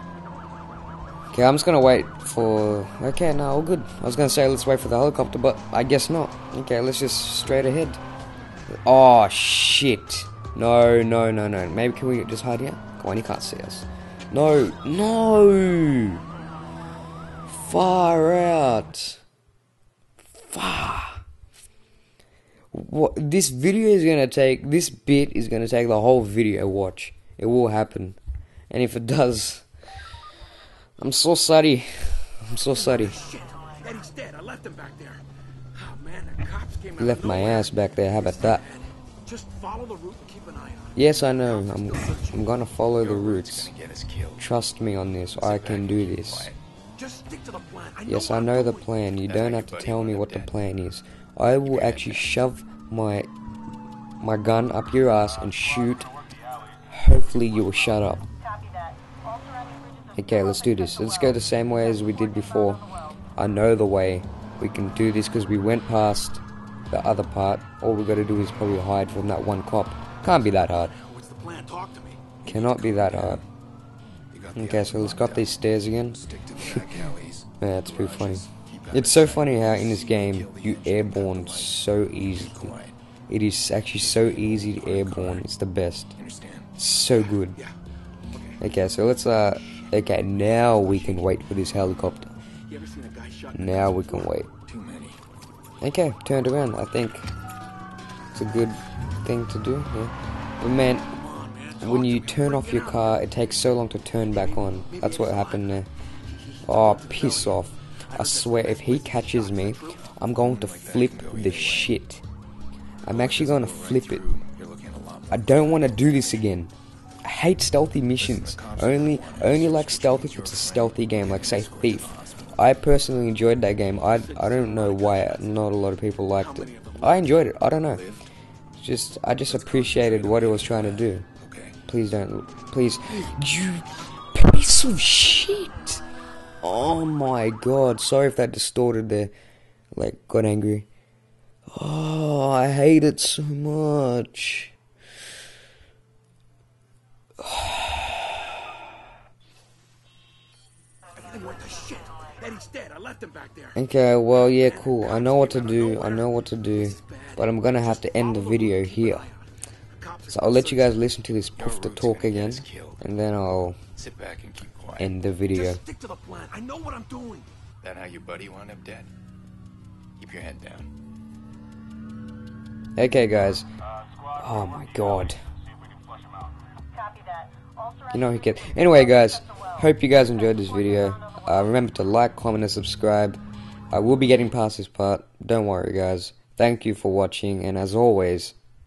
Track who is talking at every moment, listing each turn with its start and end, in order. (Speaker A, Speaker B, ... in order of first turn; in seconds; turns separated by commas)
Speaker A: 1.3-8.0, Speaker A: 8.7-16.2, Speaker A: 17.5-19.2, Speaker A: 20.3-21.2, Speaker A: 22.7-28.2, Speaker A: 28.7-29.9, Speaker A: 31.0-33.2, Speaker B: 32.8-35.2, Speaker B: 35.7-42.4, Speaker A: 37.0-38.6, Speaker A: 40.9-43.7, Speaker C: 43.0-44.4, Speaker A: 44.4-46.5, Speaker C: 45.4-46.6, Speaker B: 47.0-48.8, Speaker A: 48.0-53.3, Speaker C: 49.3-50.5, Speaker C: 51.7-52.2, Speaker A: 54.2-56.1, Speaker A: 56.9-58.3, Speaker A: 60.1-70.9, Speaker B: 71.0-72.2, Speaker A: 72.4-73.4, Speaker C: 72.5-73.4, Speaker C: 74.3-75.5, Speaker A: 74.5-76.2, Speaker C: 76.1-83.0, Speaker A: 77.6-82.7, Speaker A: 83.3-86.1, Speaker C: 84.0-85.4, Speaker C: 86.2-86.7, Speaker A: 86.8-87.6, Speaker A: 88.6-92.3, Speaker B: 92.7-94.2, Speaker A: 93.5-94.5, Speaker C: 94.7-95.2, Speaker A: 95.8-97.3, Speaker A: 98.3-101.2, Speaker B: 101.2-103.0, Speaker A: 101.8-105.9, Speaker B: 104.5-105.6, Speaker B: 106.3-107.5, Speaker A: 106.6-112.2, Speaker B: 108.1-110.0, Speaker C: 110.4-111.9, Speaker C: 113.0-116.5, Speaker A: 113.0-114.2, Speaker A: 115.3-116.7, Speaker A: 117.2-128.0, Speaker C: 118.2-122.3, Speaker B: 124.1-125.4, Speaker B: 126.4-127.2, Speaker C: 127.9-128.2, Speaker A: 128.8-131.2, Speaker C: 129.5-131.8, Speaker A: 131.9-136.0, Speaker A: 136.6-139.3, Speaker A: 139.9-140.9, Speaker A: 141.7-144.7, Speaker A: 147.4-148.0, Speaker B: 151.2-153.8, Speaker A: 153.7-159.3, Speaker B: 154.4-156.2, Speaker B: 156.8-159.4, Speaker B: 159.9-160.9, Speaker A: 160.3-163.8, Speaker C: 161.6-163.0, Speaker C: 163.9-165.1, Speaker A: 165.0-165.8, Speaker B: 165.5-167.5, Speaker C: 167.8-169.1, Speaker C: 170.2-170.9, Speaker A: 172.9-173.7, Speaker A: 174.3-175.4, Speaker A: 178.1-188.5